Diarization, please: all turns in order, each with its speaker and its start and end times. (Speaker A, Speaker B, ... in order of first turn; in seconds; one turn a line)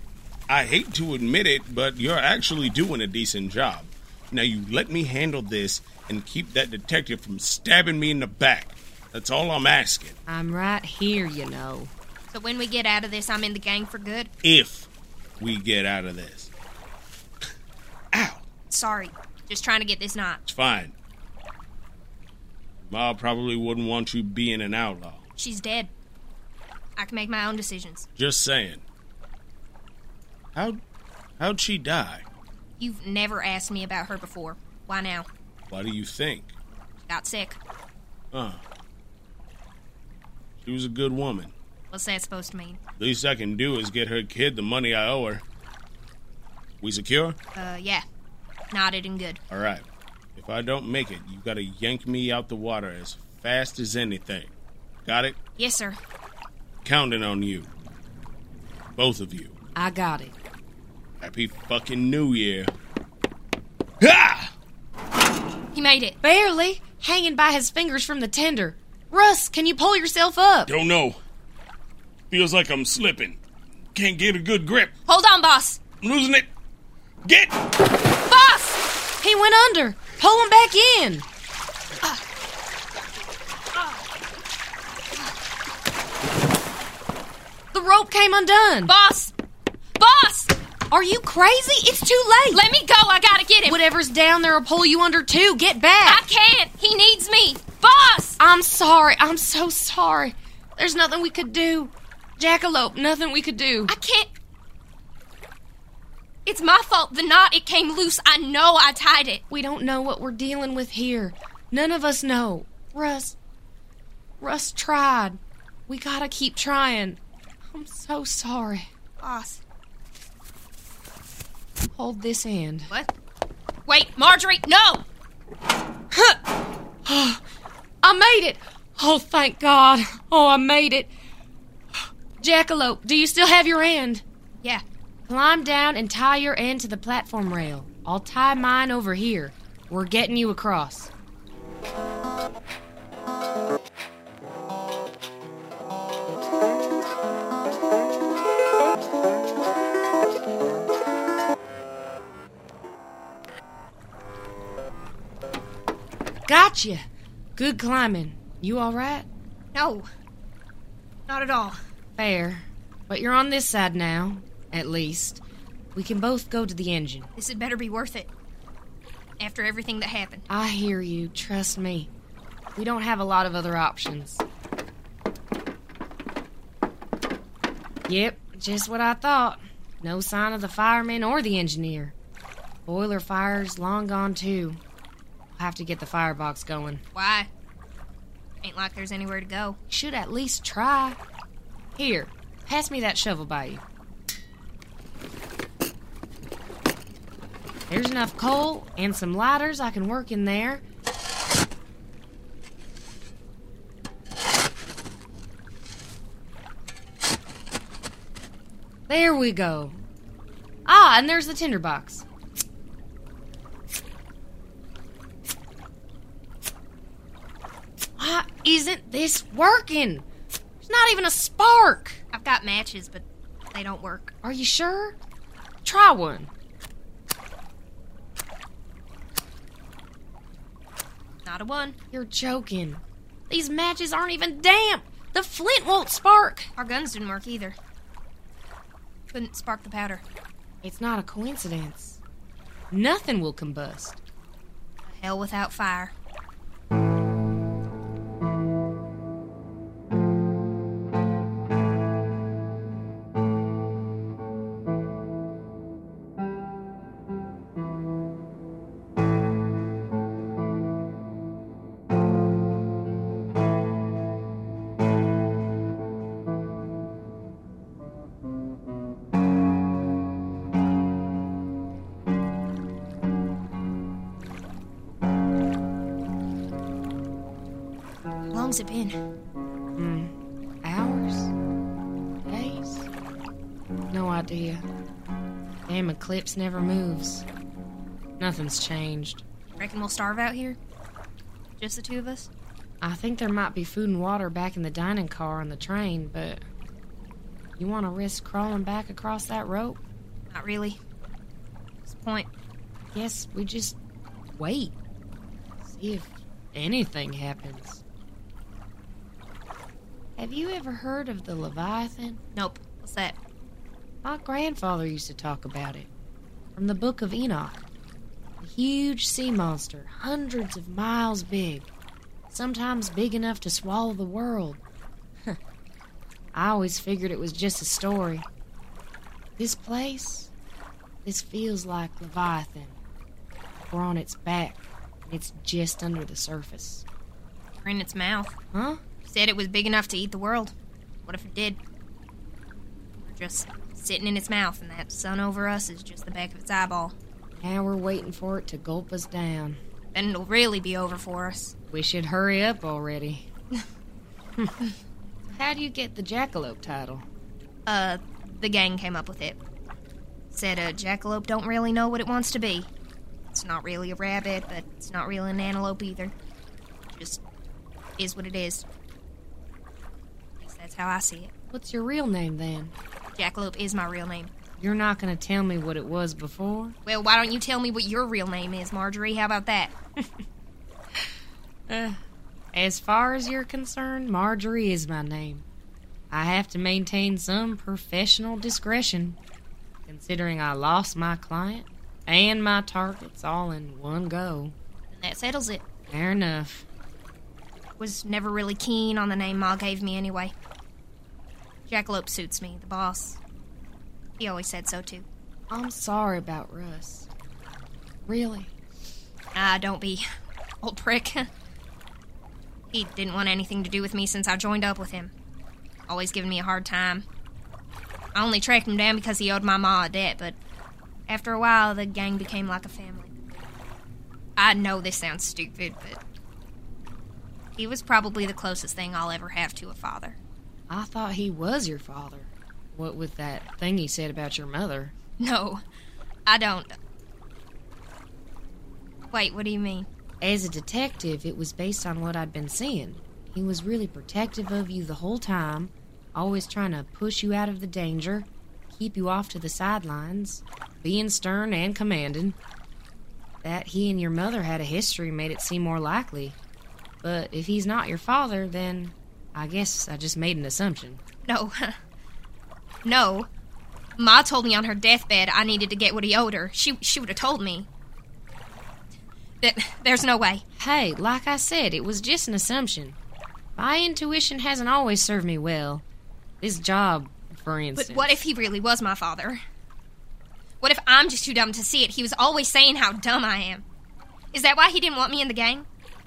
Speaker A: 0.5-10.2
Speaker B: 10.3-11.9
Speaker C: 12.3-14.3
Speaker A: 14.4-14.9
Speaker A: 15.4-16.5
Speaker A: 18.1-18.4
Speaker C: 18.7-20.4
Speaker A: 20.4-20.9
Speaker A: 22.8-25.2
Speaker C: 25.4-25.9
Speaker C: 27.0-28.1
Speaker A: 28.2-28.8
Speaker A: 30.5-30.8
Speaker A: 31.4-32.2
Speaker C: 32.8-35.3
Speaker A: 35.7-36.5
Speaker C: 37.1-37.6
Speaker A: 38.3-38.6
Speaker A: 40.6-41.5
Speaker C: 41.9-42.8
Speaker A: 43.0-45.4
Speaker A: 46.8-47.4
Speaker C: 47.5-48.0
Speaker C: 48.7-49.4
Speaker A: 49.5-49.8
Speaker A: 50.4-54.5
Speaker A: 55.0-55.4
Speaker C: 55.6-56.0
Speaker A: 56.8-57.7
Speaker A: 59.0-59.5
Speaker B: 59.8-60.3
Speaker A: 61.2-62.7
Speaker A: 64.0-64.5
Speaker C: 65.7-66.2
Speaker B: 66.2-70.7
Speaker A: 70.7-71.2
Speaker A: 72.3-73.4
Speaker A: 73.9-74.9
Speaker C: 75.1-75.8
Speaker A: 76.0-76.5
Speaker A: 77.2-77.6
Speaker C: 78.3-78.8
Speaker B: 79.2-81.2
Speaker B: 87.7-88.9
Speaker C: 88.8-89.3
Speaker C: 90.0-90.5
Speaker B: 90.9-92.6
Speaker C: 92.5-93.8
Speaker B: 93.7-96.2
Speaker C: 96.0-98.4
Speaker B: 98.4-103.9
Speaker C: 103.9-104.3
Speaker C: 106.5-109.4
Speaker B: 109.5-113.3
Speaker B: 114.4-118.9
Speaker C: 119.2-119.6
Speaker B: 121.9-122.9
Speaker C: 123.9-125.0
Speaker B: 126.1-126.4
Speaker B: 127.0-127.4
Speaker B: 128.0-131.1
Speaker B: 132.4-134.2
Speaker B: 135.3-141.1
Speaker B: 156.5-159.3
Speaker C: 159.7-160.1
Speaker C: 161.3-161.8
Speaker B: 162.2-165.4
Speaker B: 165.9-167.3
Speaker C: 167.4-168.3
Speaker C: 169.4-170.4
Speaker B: 170.5-172.1
Speaker B: 172.8-174.4
Speaker B: 178.1-182.1
Speaker B: 182.8-184.8
Speaker B: 185.6-187.0
Speaker C: 187.1-187.5
Speaker C: 188.6-189.8
Speaker B: 189.9-191.2
Speaker B: 191.9-193.8
Speaker B: 197.9-200.8
Speaker B: 209.1-210.0
Speaker B: 210.8-212.2
Speaker B: 218.2-220.2
Speaker B: 220.8-222.2
Speaker C: 222.3-224.3
Speaker B: 224.4-225.2
Speaker B: 225.8-226.5
Speaker C: 231.4-231.9
Speaker B: 232.1-236.7
Speaker C: 236.8-237.7
Speaker C: 239.3-240.2
Speaker B: 240.8-242.2
Speaker B: 242.9-244.2
Speaker C: 245.1-246.1
Speaker C: 278.5-279.2
Speaker B: 280.0-281.5
Speaker B: 282.5-283.1
Speaker B: 284.1-284.8
Speaker B: 285.9-287.4
Speaker B: 288.4-289.4
Speaker C: 289.7-290.8
Speaker C: 291.8-292.5
Speaker B: 293.0-296.6
Speaker B: 297.8-300.0
Speaker C: 300.5-301.0
Speaker C: 302.1-302.5
Speaker B: 303.1-304.0
Speaker B: 304.5-304.9
Speaker B: 305.8-308.0
Speaker B: 310.4-312.4
Speaker C: 312.5-313.4
Speaker B: 314.2-316.1
Speaker B: 316.8-317.8
Speaker B: 318.6-321.9
Speaker B: 322.5-324.8
Speaker B: 326.5-328.5
Speaker B: 329.6-330.5
Speaker B: 331.2-333.0
Speaker B: 333.9-337.0
Speaker C: 337.8-338.5
Speaker B: 338.7-339.0
Speaker C: 339.2-340.7
Speaker C: 341.2-341.8
Speaker C: 343.2-347.1
Speaker B: 347.6-349.8
Speaker C: 350.1-351.7
Speaker B: 351.9-353.5
Speaker B: 355.5-357.2
Speaker C: 357.9-359.6
Speaker C: 360.5-362.9
Speaker C: 363.5-366.3
Speaker C: 367.1-367.4
Speaker C: 368.2-368.8
Speaker C: 370.6-371.5
Speaker B: 371.7-372.9
Speaker C: 373.4-374.5
Speaker B: 374.8-376.9
Speaker C: 377.1-379.9
Speaker B: 381.9-382.2
Speaker B: 382.7-385.6
Speaker B: 386.3-389.4
Speaker B: 390.1-394.7
Speaker C: 395.1-395.8
Speaker B: 396.1-396.8
Speaker C: 398.0-400.5
Speaker C: 401.9-403.4
Speaker C: 404.4-405.2
Speaker B: 405.7-407.3
Speaker B: 408.3-408.7
Speaker C: 409.5-410.2
Speaker C: 410.8-411.5
Speaker C: 412.9-415.3
Speaker C: 416.1-417.2
Speaker C: 418.3-420.6
Speaker C: 421.3-423.3
Speaker C: 424.6-426.2
Speaker C: 427.8-430.4
Speaker B: 430.9-435.1
Speaker C: 435.4-435.8
Speaker C: 436.5-436.9
Speaker C: 439.3-440.1
Speaker B: 440.4-452.6
Speaker B: 453.6-456.6
Speaker B: 457.2-461.2
Speaker C: 461.5-461.9
Speaker C: 463.0-463.5
Speaker C: 464.2-467.9
Speaker C: 469.6-470.6
Speaker B: 470.8-473.2
Speaker B: 473.8-476.0
Speaker B: 476.6-478.4
Speaker C: 477.9-479.6
Speaker C: 480.8-483.8
Speaker C: 484.5-485.9